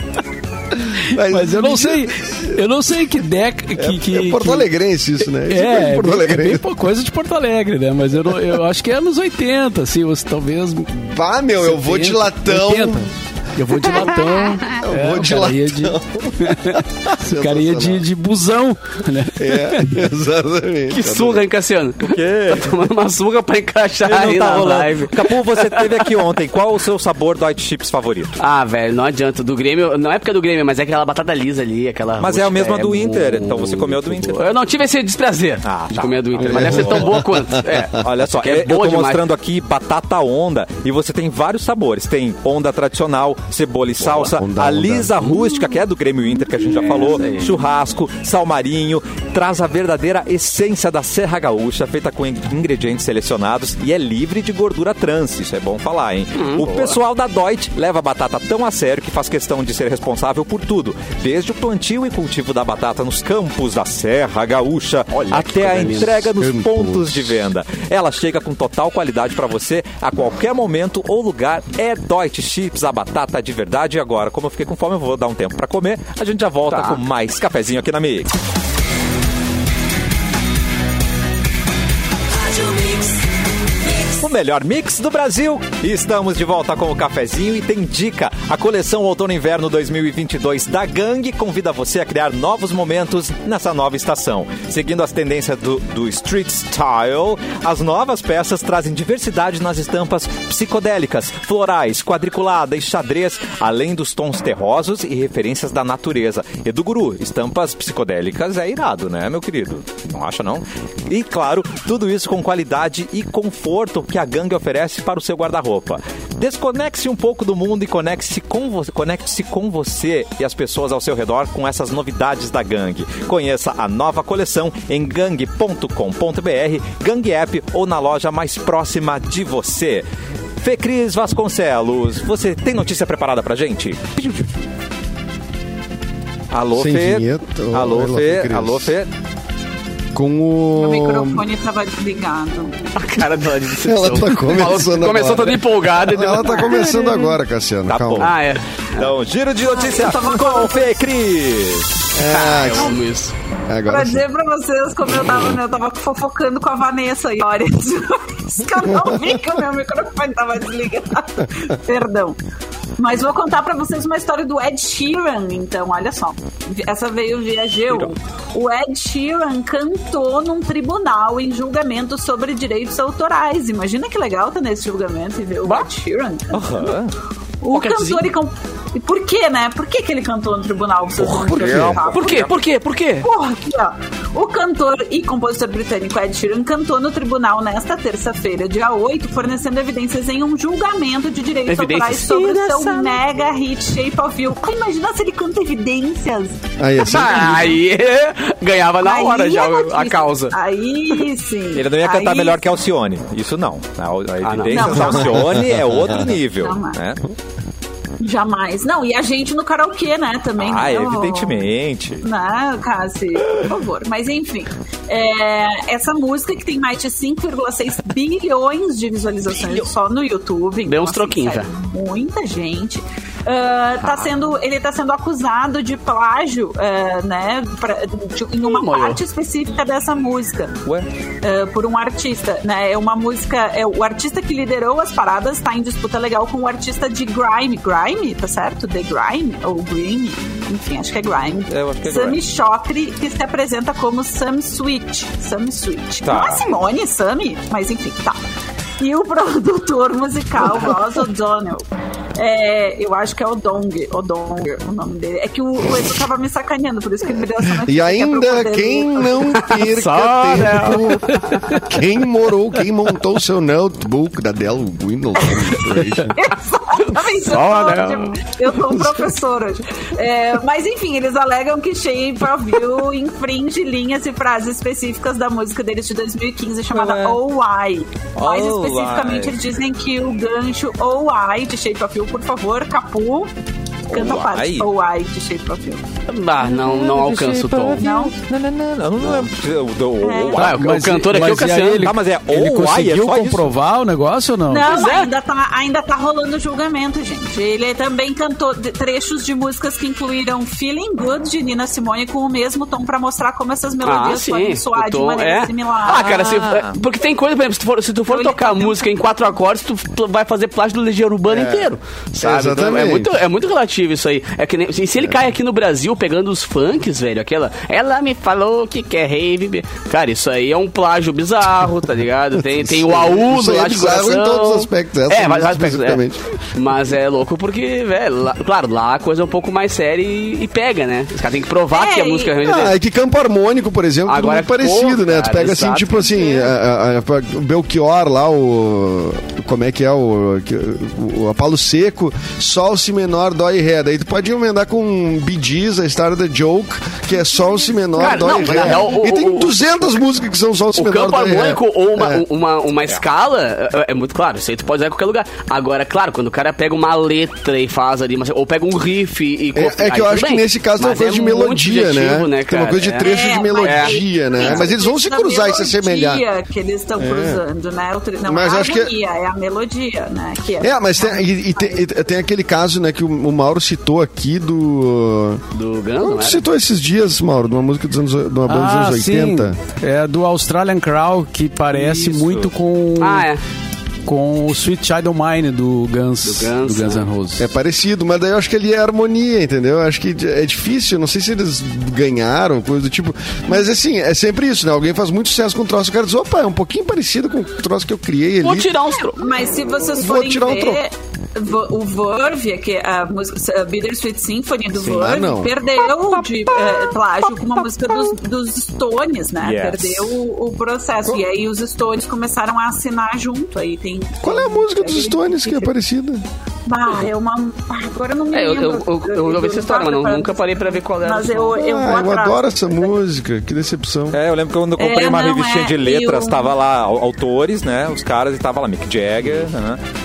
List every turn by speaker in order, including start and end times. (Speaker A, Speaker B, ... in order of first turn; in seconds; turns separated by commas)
Speaker A: 0.9-4.7, Speaker B: 0.9-2.6, Speaker B: 3.8-6.7, Speaker A: 5.5-20.0, Speaker B: 11.0-13.1, Speaker B: 14.6-18.0, Speaker B: 19.4-21.4, Speaker C: 20.9-26.2, Speaker D: 22.0-22.8, Speaker D: 24.0-28.4, Speaker C: 28.4-39.2, Speaker D: 32.2-34.5, Speaker D: 35.6-37.2, Speaker B: 36.4-37.3, Speaker D: 38.0-78.3, Speaker B: 44.0-45.1, Speaker C: 46.9-47.6, Speaker C: 56.4-57.0, Speaker C: 65.1-66.2, Speaker B: 65.8-67.4, Speaker C: 76.7-77.0, Speaker D: 84.0-130.1, Speaker D: 130.6-134.5, Speaker D: 136.5-139.1, Speaker B: 136.7-138.9, Speaker B: 140.1-141.4, Speaker E: 140.8-142.8, Speaker C: 142.9-147.2, Speaker B: 143.8-148.3, Speaker D: 147.9-148.3, Speaker C: 148.2-149.1, Speaker D: 148.9-152.0, Speaker E: 149.6-150.9, Speaker B: 152.1-152.9, Speaker C: 152.2-153.3, Speaker B: 153.7-154.2, Speaker E: 153.9-162.4, Speaker E: 163.0-177.0, Speaker D: 176.5-177.1, Speaker E: 177.6-182.5, Speaker C: 177.7-178.3, Speaker D: 181.2-182.5, Speaker B: 181.3-182.0, Speaker C: 182.1-183.3, Speaker E: 183.2-196.6, Speaker C: 191.7-193.2, Speaker B: 196.8-197.8, Speaker C: 197.0-200.5, Speaker E: 199.0-202.6, Speaker D: 201.7-207.2, Speaker C: 204.4-205.1, Speaker E: 204.7-205.5, Speaker E: 206.6-207.0, Speaker E: 208.2-211.7, Speaker D: 210.6-212.2, Speaker E: 212.2-230.8, Speaker C: 220.8-221.7, Speaker D: 224.0-224.3, Speaker C: 228.6-229.2, Speaker E: 231.4-248.4, Speaker D: 241.7-242.4, Speaker D: 246.2-246.6, Speaker E: 249.0-259.7, Speaker B: 257.8-266.4, Speaker C: 259.7-261.8, Speaker E: 266.4-283.5, Speaker C: 267.4-268.5, Speaker D: 276.9-277.4, Speaker D: 278.4-279.6, Speaker E: 284.1-286.0, Speaker D: 284.1-284.9, Speaker C: 286.3-288.1, Speaker D: 286.7-290.8, Speaker E: 288.0-288.3, Speaker E: 290.2-290.6, Speaker C: 290.6-292.1, Speaker A: 290.6-294.9, Speaker D: 292.0-293.7, Speaker E: 294.7-306.5, Speaker C: 294.8-295.3, Speaker C: 304.0-326.2, Speaker D: 306.2-307.0, Speaker E: 308.3-309.0, Speaker B: 311.5-311.9, Speaker B: 312.4-313.3, Speaker B: 322.7-326.4, Speaker C: 326.7-333.0, Speaker E: 331.9-332.5, Speaker B: 332.6-352.4, Speaker C: 334.3-336.2, Speaker E: 336.3-336.7, Speaker C: 348.1-349.8, Speaker C: 350.9-364.9, Speaker B: 359.7-366.4, Speaker E: 363.2-372.1, Speaker B: 367.2-367.6, Speaker B: 368.4-369.1, Speaker B: 370.8-375.6, Speaker C: 375.7-376.6, Speaker B: 376.2-379.8, Speaker A: 378.7-383.5, Speaker D: 382.1-382.7, Speaker C: 383.2-383.6, Speaker A: 384.2-387.7, Speaker C: 386.4-387.2, Speaker B: 387.6-398.9, Speaker C: 398.6-399.4, Speaker E: 399.4-415.9, Speaker B: 400.1-401.0, Speaker B: 405.0-405.7, Speaker D: 409.6-410.4, Speaker B: 414.4-416.4, Speaker E: 416.9-423.2, Speaker C: 418.5-421.8, Speaker B: 421.8-424.4, Speaker D: 424.3-430.0, Speaker E: 425.0-426.7